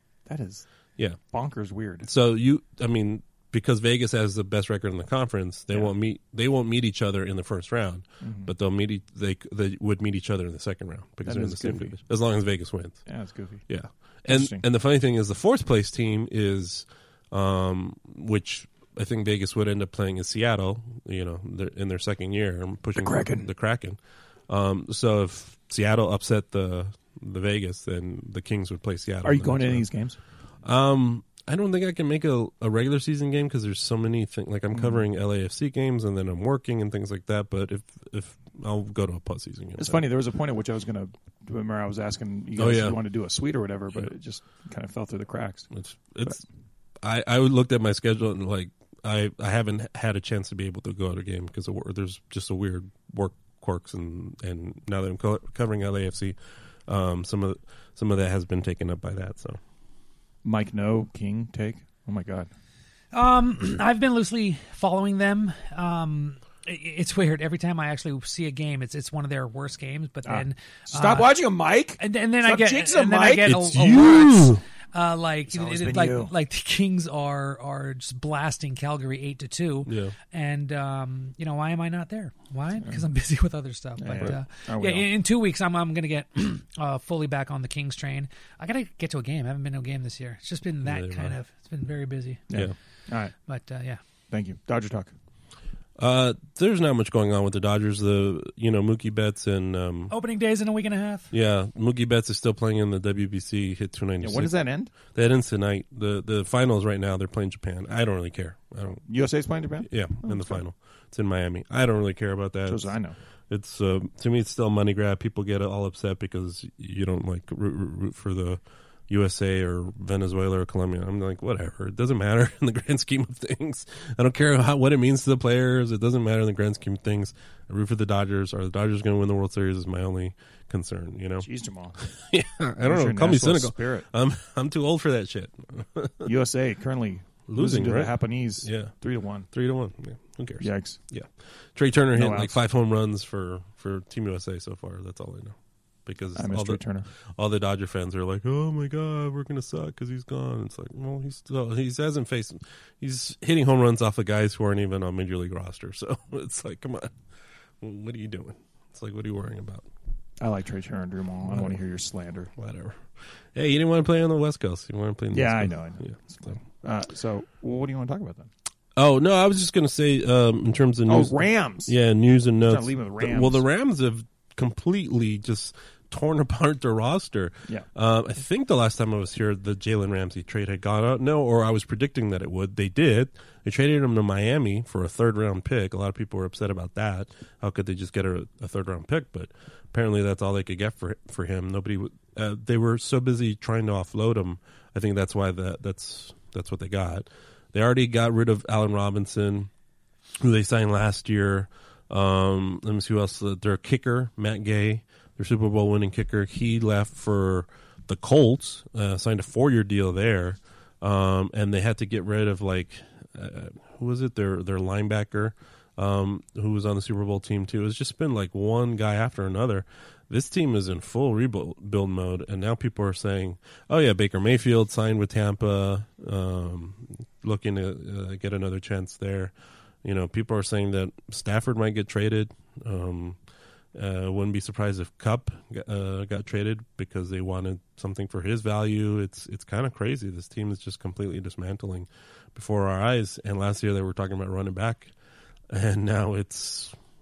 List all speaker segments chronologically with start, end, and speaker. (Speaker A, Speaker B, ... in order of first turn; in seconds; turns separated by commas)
Speaker A: 0.2-0.7, Speaker A: 1.2-2.1, Speaker B: 2.0-13.1, Speaker A: 8.2-8.5, Speaker A: 11.2-12.0, Speaker A: 13.1-13.7, Speaker B: 13.7-29.8, Speaker A: 14.2-14.6, Speaker A: 22.9-23.5, Speaker A: 29.2-30.2, Speaker B: 30.6-40.0, Speaker A: 34.7-35.0, Speaker A: 39.8-45.7, Speaker B: 42.6-43.0, Speaker B: 45.7-46.4, Speaker B: 47.0-59.6, Speaker A: 60.4-62.5, Speaker C: 63.1-92.5, Speaker A: 70.2-74.0, Speaker B: 73.4-74.6, Speaker A: 75.5-76.3, Speaker B: 79.8-80.1, Speaker A: 84.0-85.1, Speaker B: 90.8-91.3, Speaker A: 92.5-93.3, Speaker C: 93.5-94.0, Speaker A: 94.3-95.1, Speaker B: 96.0-100.1, Speaker C: 100.1-101.3, Speaker B: 101.3-104.5, Speaker A: 104.2-104.9, Speaker B: 105.1-109.0, Speaker A: 109.1-110.6, Speaker B: 109.8-112.9, Speaker A: 112.7-113.2, Speaker B: 113.5-136.3, Speaker A: 131.4-132.0, Speaker A: 132.8-134.1, Speaker A: 136.2-139.5, Speaker B: 137.5-138.9, Speaker B: 139.5-157.1, Speaker A: 140.6-141.0, Speaker A: 142.1-142.6, Speaker A: 146.3-147.1, Speaker B: 157.8-159.9, Speaker A: 160.4-162.5, Speaker B: 162.6-166.5, Speaker A: 165.3-168.5, Speaker B: 168.9-199.7, Speaker A: 171.1-171.9, Speaker A: 172.6-173.6, Speaker B: 200.4-233.4, Speaker B: 233.9-245.1, Speaker B: 245.7-246.9